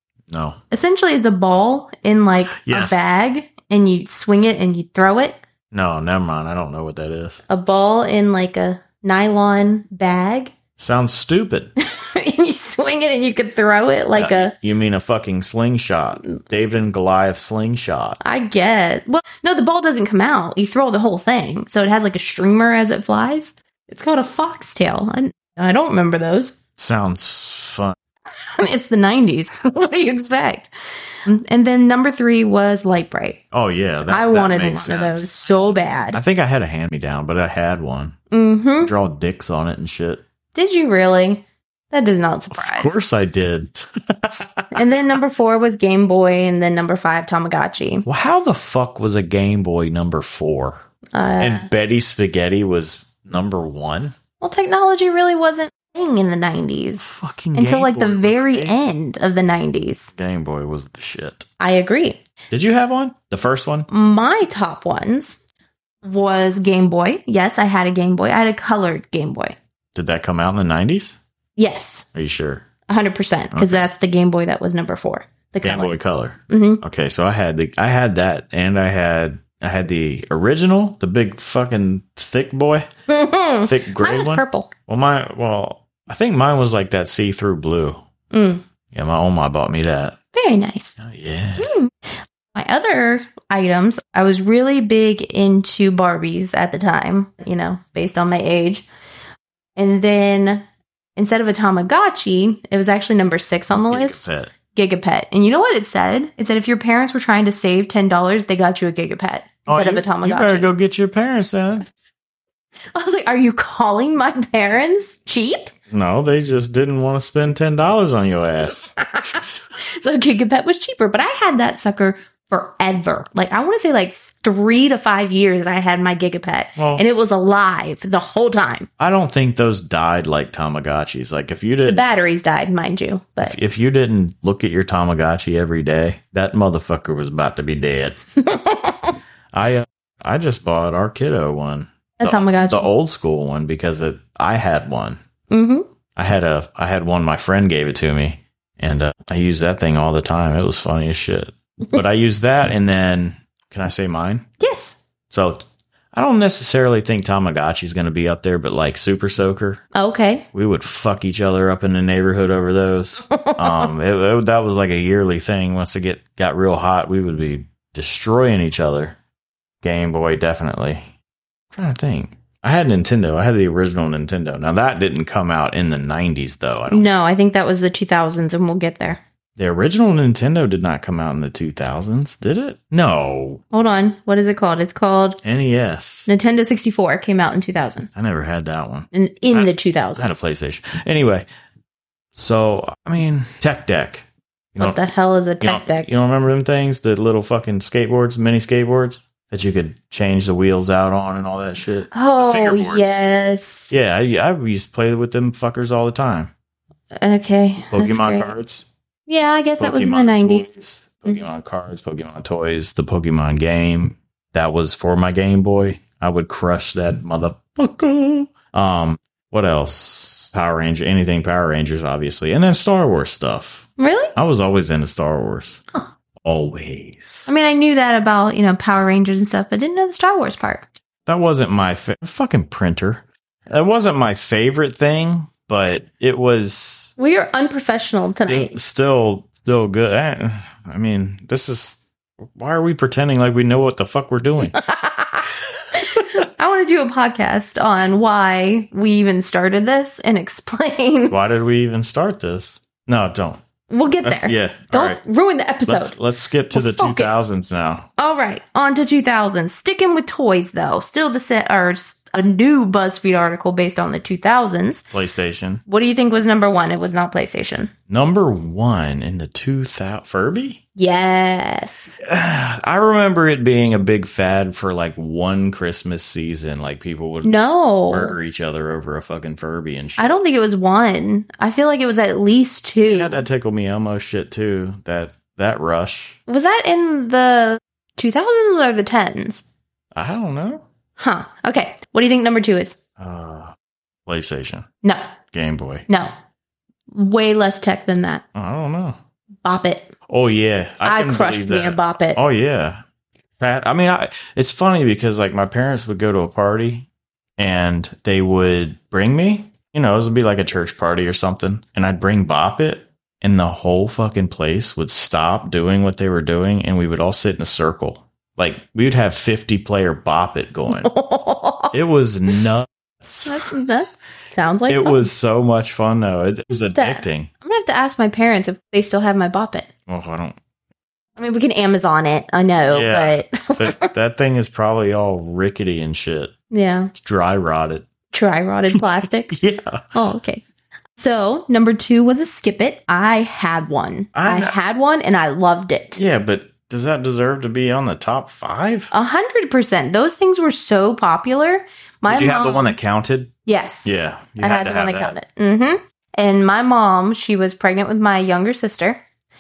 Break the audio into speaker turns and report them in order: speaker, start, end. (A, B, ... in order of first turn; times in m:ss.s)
0:00.3-0:00.6 A
0:00.7-0:05.4 B
0:02.5-0:03.1 A
0:05.7-0:07.4 A
0:07.5-0:10.5 B
0:10.8-0:11.7 A
0:11.9-0:14.5 B
0:14.1-0:18.2 A
0:18.2-0:26.5 B
0:26.8-0:27.9 A
0:28.5-0:33.4 B
0:33.5-0:35.5 A
0:34.1-0:36.2 B
0:36.1-0:38.2 A
0:38.3-0:38.9 B
0:38.8-0:40.2 A
0:40.5-0:43.0 B
0:42.5-0:44.8 A
0:44.7-0:48.0 B
0:48.0-0:50.8 A
0:51.1-0:51.7 B
0:51.4-0:54.1 A
0:54.4-1:00.1 B
0:57.0-0:58.9 A
1:00.1-1:01.5 A
1:01.6-1:02.2 B
1:02.5-1:03.9 A
1:03.9-1:05.4 B
1:06.0-1:09.6 B
1:09.9-1:11.2 A
1:11.6-1:12.1 B
1:12.1-1:12.6 A
1:12.9-1:16.0 B
1:13.5-1:13.8 A
1:15.6-1:22.9 A
1:16.5-1:16.8 B
1:23.1-1:24.7 B
1:23.6-1:28.0 A
1:28.3-1:28.6 B
1:28.9-1:30.2 A
1:30.3-1:31.0 B
1:31.0-1:31.8 A
1:31.6-1:38.9 B
1:39.8-1:40.6 B
1:41.2-1:50.7 B
1:43.7-1:44.5 A
1:49.6-1:51.9 A
1:52.9-1:55.7 B
1:55.9-1:58.9 A
1:58.9-2:08.9 B
2:06.8-2:07.0 A
2:09.0-2:12.0 A
2:11.9-2:13.6 B
2:13.4-2:18.2 A
2:18.4-2:19.1 B
2:19.5-2:25.2 A
2:22.2-2:22.9 B
2:25.5-2:25.9 B
2:26.2-2:34.4 A
2:34.6-2:35.0 B
2:35.3-2:39.8 A
2:39.9-2:40.5 B
2:40.5-2:49.2 A
2:43.4-2:43.9 B
2:49.8-2:51.1 A
2:51.7-2:57.1 A
2:56.9-2:59.2 B
2:59.6-3:03.6 A
3:03.7-3:05.4 B
3:05.4-3:06.3 A
3:06.3-3:08.1 B
3:08.1-3:11.4 A
3:09.1-3:10.4 B
3:12.4-3:15.0 A
3:14.8-3:16.1 B
3:15.6-3:23.2 A
3:22.1-3:23.9 B
3:23.9-3:26.5 A
3:27.1-3:28.5 B
3:27.9-3:28.8 A
3:29.3-3:30.7 B
3:29.8-3:45.8 A
3:44.0-3:44.3 B
3:46.4-3:47.5 A
3:47.5-3:50.9 B
3:51.2-3:57.1 A
3:57.2-3:58.7 B
3:58.5-4:02.0 A
4:02.6-4:04.8 A
4:04.7-4:11.3 B
4:06.0-4:06.4 A
4:11.3-4:13.6 A
4:13.9-4:16.1 B
4:14.2-4:15.2 A
4:15.8-4:18.1 A
4:16.7-4:17.3 B
4:18.2-4:25.1 B
4:25.1-4:25.8 A
4:25.9-4:27.9 B
4:28.1-4:30.8 A
4:31.0-4:32.1 B
4:32.2-4:37.5 A
4:37.4-4:38.4 B
4:38.1-4:40.4 A
4:40.2-4:43.4 B
4:43.0-4:46.4 A
4:46.5-4:49.6 B
4:50.1-4:50.8 A
4:51.2-4:53.0 B
4:53.2-4:53.7 A
4:54.3-4:54.8 A
4:55.5-4:56.1 A
4:57.1-4:58.4 B
4:58.5-4:59.2 A
4:59.6-5:00.1 B
5:00.3-5:03.0 A
5:01.0-5:02.4 B
5:03.6-5:21.1 A
5:20.9-5:21.9 B
5:21.9-5:23.7 A
5:23.4-5:25.3 B
5:24.9-5:27.5 A
5:26.9-5:29.9 B
5:30.1-5:30.6 A
5:31.4-5:34.1 B
5:32.9-5:36.5 A
5:36.7-5:37.1 B
5:37.1-5:38.1 A
5:38.3-5:39.6 B
5:38.9-5:40.1 A
5:40.1-5:40.6 B
5:41.2-5:46.2 B
5:44.3-5:44.7 A
5:46.2-5:49.1 A
5:49.1-5:53.0 B
5:52.3-5:53.5 A
5:53.6-5:59.2 B
5:54.0-5:55.3 A